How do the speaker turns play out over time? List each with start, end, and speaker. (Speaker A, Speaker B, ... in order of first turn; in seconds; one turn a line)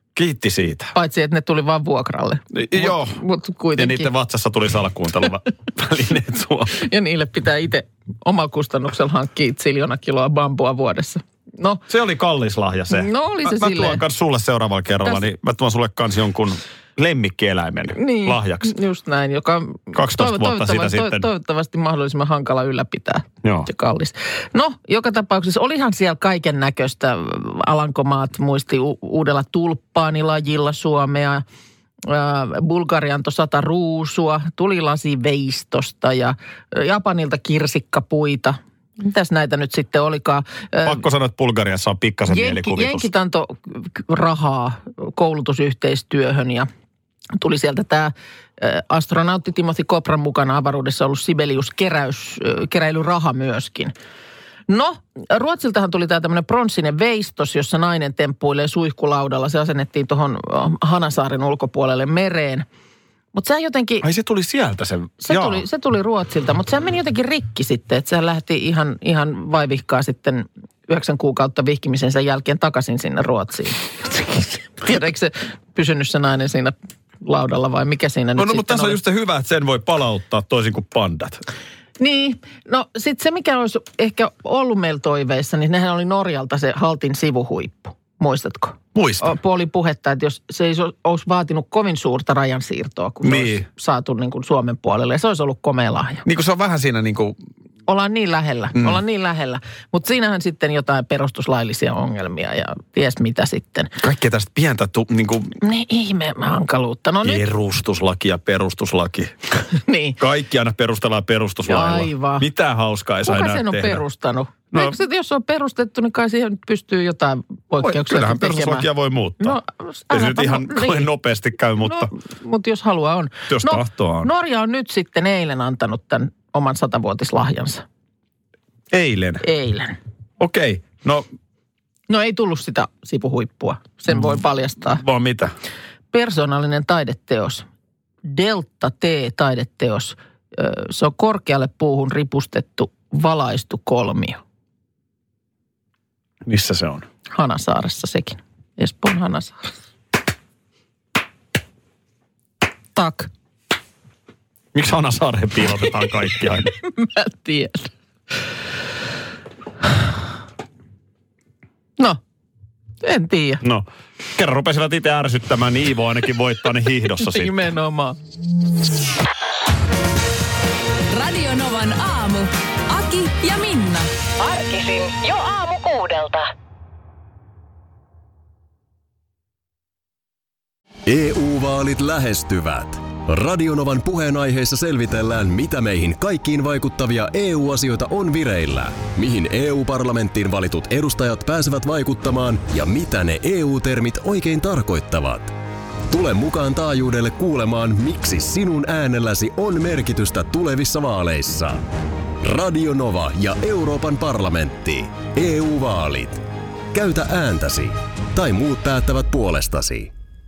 Speaker A: 0.1-0.9
Speaker B: 0.9-4.1
Speaker A: 2.5-3.2
Speaker A: 3.7-6.8
Speaker B: 6.8-11.8
Speaker A: 11.9-18.7
Speaker B: 12.9-14.0
Speaker B: 17.9-31.4
Speaker A: 19.9-21.3
Speaker A: 23.4-23.7
Speaker B: 32.0-41.0
Speaker A: 40.8-43.1
Speaker B: 42.3-46.7
Speaker B: 47.4-53.9
Speaker B: 54.7-62.6
Speaker B: 63.3-64.0
Speaker A: 64.0-65.6
Speaker B: 65.2-79.0
Speaker A: 78.3-81.4
Speaker B: 82.0-96.2
Speaker A: 88.9-89.4
Speaker A: 93.2-93.7
Speaker A: 96.2-97.4
Speaker B: 97.9-103.9
Speaker A: 104.0-105.5
Speaker B: 105.6-107.5
Speaker A: 107.2-109.3
Speaker B: 109.7-110.2
Speaker A: 110.2-114.0
Speaker B: 111.7-112.5
Speaker B: 113.2-118.9
Speaker A: 117.8-119.6
Speaker B: 119.4-121.1
Speaker A: 120.1-122.1
Speaker B: 121.8-127.8
Speaker A: 123.5-124.3
Speaker A: 128.9-129.4
Speaker B: 129.4-130.0
Speaker A: 130.4-131.2
Speaker B: 132.1-135.0
Speaker A: 134.1-135.5
Speaker B: 136.1-137.6
Speaker B: 138.2-144.4
Speaker A: 146.4-147.1
Speaker B: 147.3-149.6
Speaker B: 152.9-153.3
Speaker A: 154.7-156.7
Speaker B: 156.8-157.9
Speaker B: 163.0-163.6
Speaker A: 163.6-167.6
Speaker B: 167.2-168.2
Speaker C: 171.1-174.1
Speaker D: 174.4-176.5
Speaker E: 181.1-195.5
Speaker E: 196.1-201.8
Speaker E: 202.4-206.4
Speaker E: 206.9-210.1